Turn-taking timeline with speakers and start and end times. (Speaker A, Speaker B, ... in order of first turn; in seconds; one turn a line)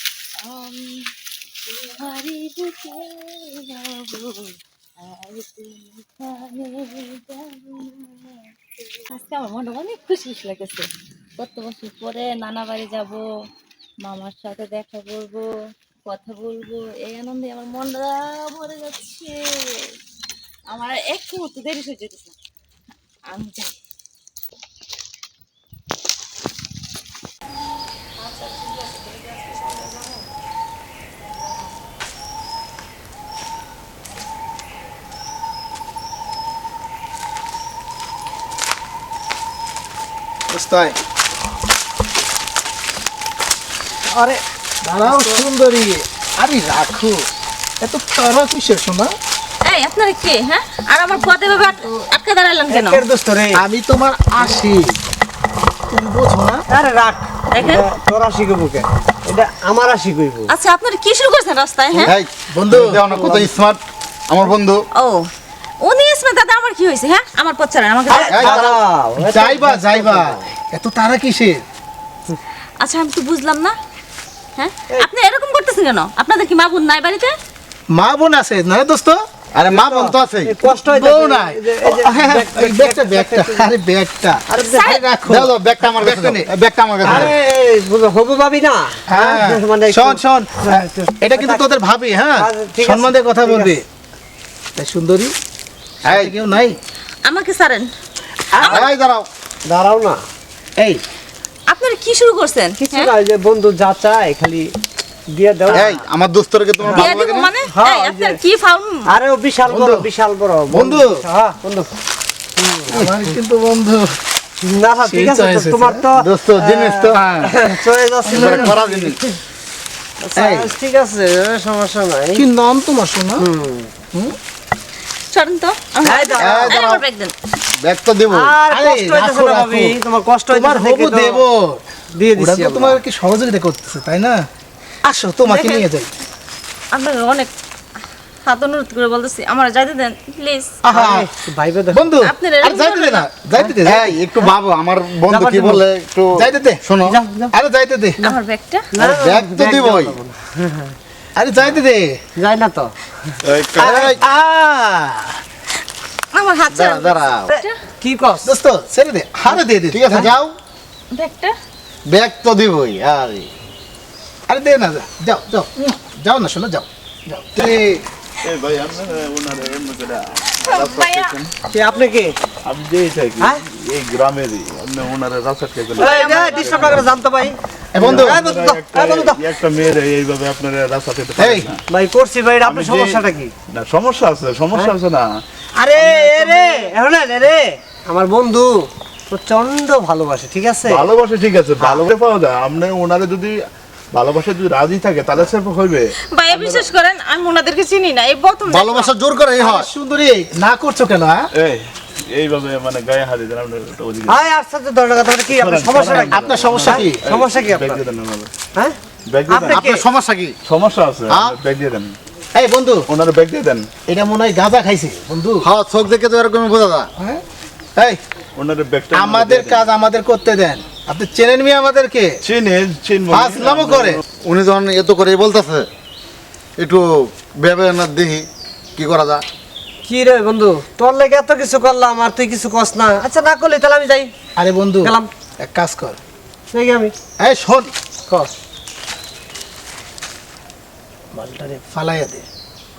Speaker A: 0.4-1.1
Speaker A: 1.6-8.4
Speaker A: 9.0-13.3
Speaker A: 14.0-20.0
Speaker A: 20.7-22.3
Speaker A: 23.3-23.8
Speaker B: 40.5-41.0
Speaker C: 44.1-44.4
Speaker B: 44.8-47.3
Speaker C: 45.0-45.4
Speaker B: 47.8-49.1
Speaker A: 49.7-53.0
Speaker C: 52.7-53.6
Speaker B: 53.5-55.0
Speaker B: 55.9-56.6
Speaker C: 56.7-60.5
Speaker A: 57.5-57.8
Speaker A: 60.5-62.1
Speaker D: 62.0-64.8
Speaker B: 62.5-63.0
Speaker C: 63.1-63.5
Speaker A: 65.0-65.3
Speaker A: 65.8-68.4
Speaker C: 68.1-70.4
Speaker D: 68.3-68.8
Speaker B: 69.2-71.6
Speaker A: 72.8-73.8
Speaker A: 74.6-77.3
Speaker B: 77.9-79.2
Speaker D: 79.5-80.5
Speaker C: 79.7-83.7
Speaker B: 80.6-86.5
Speaker C: 84.5-85.4
Speaker A: 84.7-85.0
Speaker D: 85.2-87.3
Speaker C: 87.0-91.7
Speaker B: 89.1-93.8
Speaker C: 92.4-93.8
Speaker B: 94.8-95.3
Speaker D: 96.0-96.3
Speaker B: 96.0-96.8
Speaker A: 97.2-97.9
Speaker B: 98.6-98.8
Speaker D: 98.6-99.3
Speaker C: 99.6-100.2
Speaker B: 100.8-101.0
Speaker A: 101.7-103.1
Speaker C: 102.8-104.7
Speaker C: 105.3-106.0
Speaker D: 105.7-107.5
Speaker C: 106.9-108.4
Speaker A: 107.0-109.1
Speaker C: 109.1-111.9
Speaker B: 109.7-110.1
Speaker B: 110.7-111.2
Speaker C: 112.6-113.2
Speaker B: 112.9-114.2
Speaker C: 114.6-119.3
Speaker B: 115.1-116.0
Speaker D: 116.1-117.6
Speaker D: 118.2-119.2
Speaker B: 118.5-118.8
Speaker C: 120.2-122.4
Speaker B: 120.3-120.7
Speaker B: 122.3-123.5
Speaker C: 123.4-123.9
Speaker A: 125.3-127.3
Speaker C: 126.0-126.7
Speaker D: 126.3-127.0
Speaker D: 127.8-128.5
Speaker C: 128.3-131.4
Speaker B: 128.7-130.0
Speaker B: 130.5-131.8
Speaker C: 132.2-133.0
Speaker B: 132.3-134.3
Speaker B: 135.1-136.1
Speaker A: 135.5-135.8
Speaker A: 136.9-137.5
Speaker A: 138.4-140.7
Speaker B: 140.8-141.3
Speaker C: 140.9-142.2
Speaker B: 141.9-144.2
Speaker A: 142.2-143.2
Speaker D: 143.8-147.2
Speaker C: 145.3-145.8
Speaker B: 146.3-146.9
Speaker C: 147.0-147.5
Speaker B: 147.5-148.2
Speaker A: 148.2-148.9
Speaker C: 148.9-150.9
Speaker D: 149.0-150.2
Speaker B: 151.3-152.2
Speaker C: 152.3-152.9
Speaker E: 153.4-154.2
Speaker B: 153.8-155.4
Speaker D: 153.8-154.2
Speaker A: 156.3-157.8
Speaker D: 156.7-157.5
Speaker C: 157.5-158.5
Speaker B: 158.4-160.3
Speaker D: 159.9-160.5
Speaker A: 161.1-161.6
Speaker D: 162.1-163.5
Speaker B: 164.5-168.0
Speaker D: 167.6-167.9
Speaker E: 168.4-171.5
Speaker A: 170.7-171.3
Speaker C: 171.7-172.3
Speaker E: 172.7-177.1
Speaker C: 175.9-177.6
Speaker A: 176.2-176.8
Speaker B: 177.9-178.4
Speaker E: 178.0-181.8
Speaker C: 178.1-179.4
Speaker B: 181.4-181.7
Speaker C: 181.9-183.5
Speaker E: 182.6-185.4
Speaker C: 185.8-191.0
Speaker E: 185.9-186.8
Speaker E: 190.9-193.6
Speaker E: 194.1-196.2
Speaker A: 196.3-199.1
Speaker C: 196.5-196.9
Speaker D: 198.7-199.9
Speaker B: 199.6-201.4
Speaker E: 201.6-204.4
Speaker C: 204.3-208.0
Speaker E: 205.5-208.5
Speaker B: 205.8-207.2
Speaker E: 209.3-209.9
Speaker C: 209.5-210.1
Speaker D: 209.6-210.6
Speaker E: 210.7-212.2
Speaker D: 211.3-211.6
Speaker B: 212.5-213.1
Speaker E: 213.1-213.9
Speaker B: 214.1-215.7
Speaker D: 215.6-217.1
Speaker E: 218.5-219.9
Speaker B: 219.1-222.3
Speaker E: 222.4-224.2
Speaker B: 223.3-224.2
Speaker D: 224.4-225.9
Speaker D: 226.8-229.4
Speaker C: 230.0-234.3
Speaker B: 234.6-236.2
Speaker C: 235.0-235.3
Speaker C: 236.7-237.1
Speaker B: 237.4-237.9
Speaker C: 238.3-238.5
Speaker C: 241.3-241.8
Speaker B: 241.9-242.5